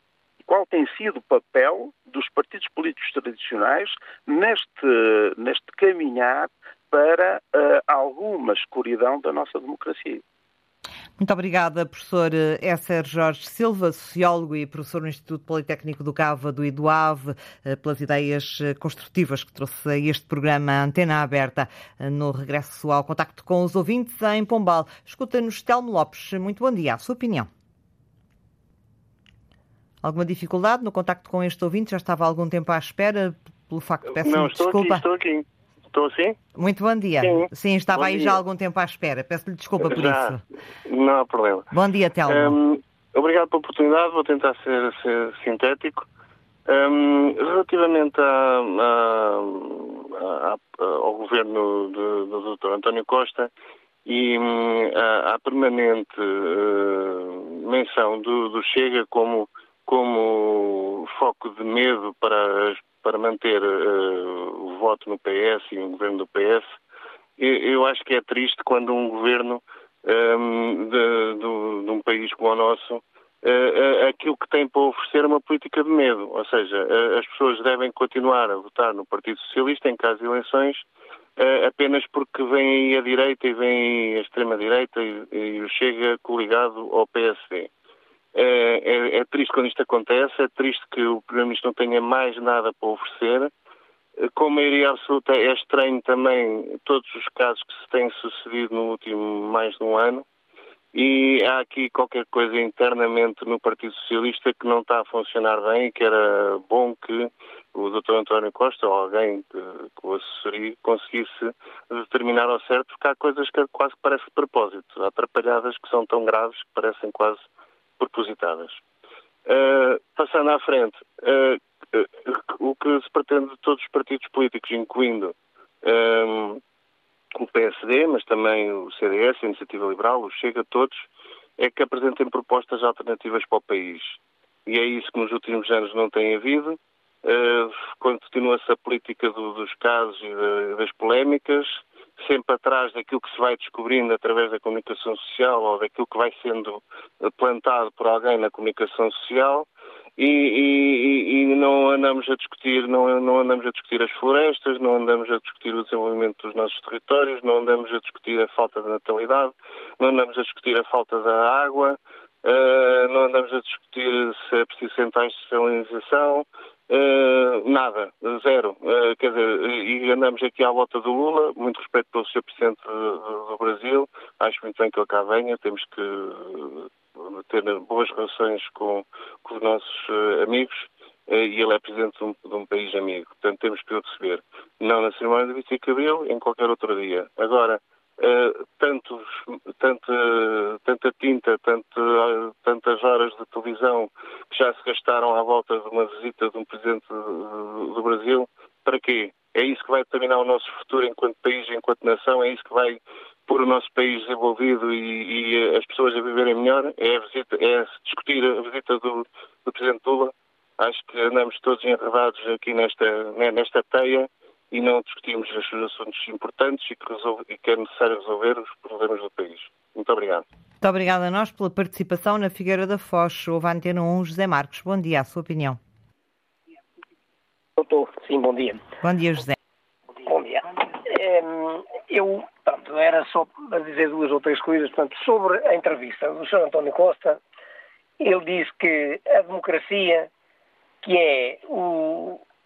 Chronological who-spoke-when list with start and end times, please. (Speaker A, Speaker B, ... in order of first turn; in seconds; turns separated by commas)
Speaker A: 0.5-10.2, Speaker B: 11.2-27.5, Speaker B: 30.0-35.0, Speaker C: 34.1-36.4, Speaker B: 36.5-40.4, Speaker C: 37.2-38.4, Speaker C: 39.8-41.7, Speaker B: 41.7-42.6, Speaker C: 42.3-46.1, Speaker C: 46.7-53.5, Speaker C: 54.0-66.7, Speaker C: 67.4-80.9, Speaker C: 81.4-87.7, Speaker C: 88.3-93.5, Speaker C: 94.2-100.3, Speaker C: 100.9-117.5, Speaker C: 118.0-118.8, Speaker C: 119.5-126.6, Speaker C: 127.3-220.4, Speaker B: 220.8-225.8, Speaker D: 227.8-228.8, Speaker B: 229.0-229.6, Speaker D: 230.2-237.4, Speaker D: 238.2-240.3, Speaker D: 241.0-242.4